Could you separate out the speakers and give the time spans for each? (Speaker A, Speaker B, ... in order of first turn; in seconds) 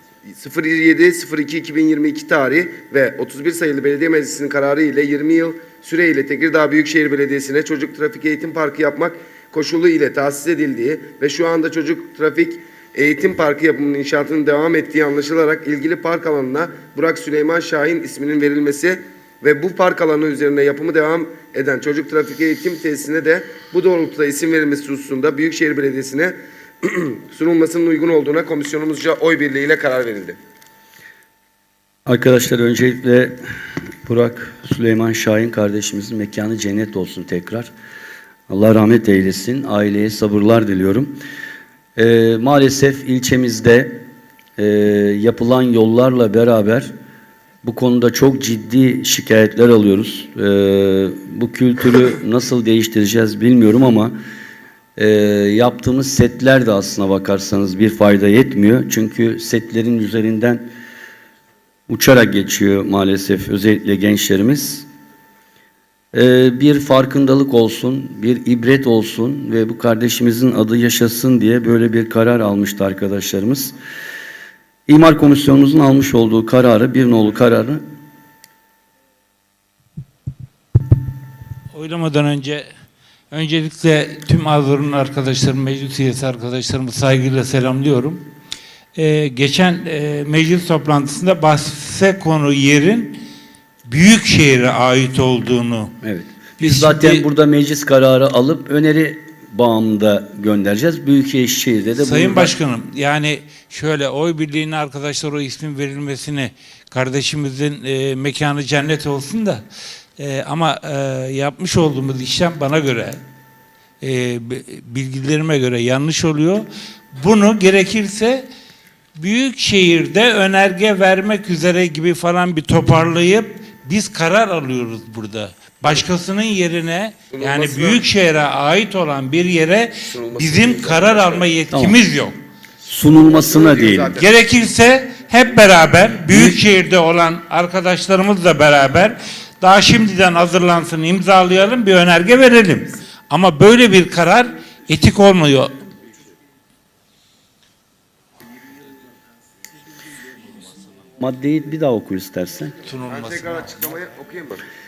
Speaker A: 0.4-30.4, 127.3-128.0, 130.1-131.4, 133.2-134.2, 153.1-154.6
Speaker B: 32.0-33.4, 34.0-37.7, 38.5-41.2, 42.0-46.9, 47.6-54.2, 55.0-60.7, 61.9-64.9, 66.1-73.7, 74.9-77.8, 96.0-102.5, 131.7-132.0, 132.8-134.2, 136.3-136.6, 151.2-152.8
Speaker C: 81.7-82.7, 83.3-88.3, 89.0-93.2, 93.8-95.9, 96.6-97.2, 102.0-109.6, 110.2-113.2, 114.0-118.5, 119.2-132.3, 134.2-145.7, 152.8-153.8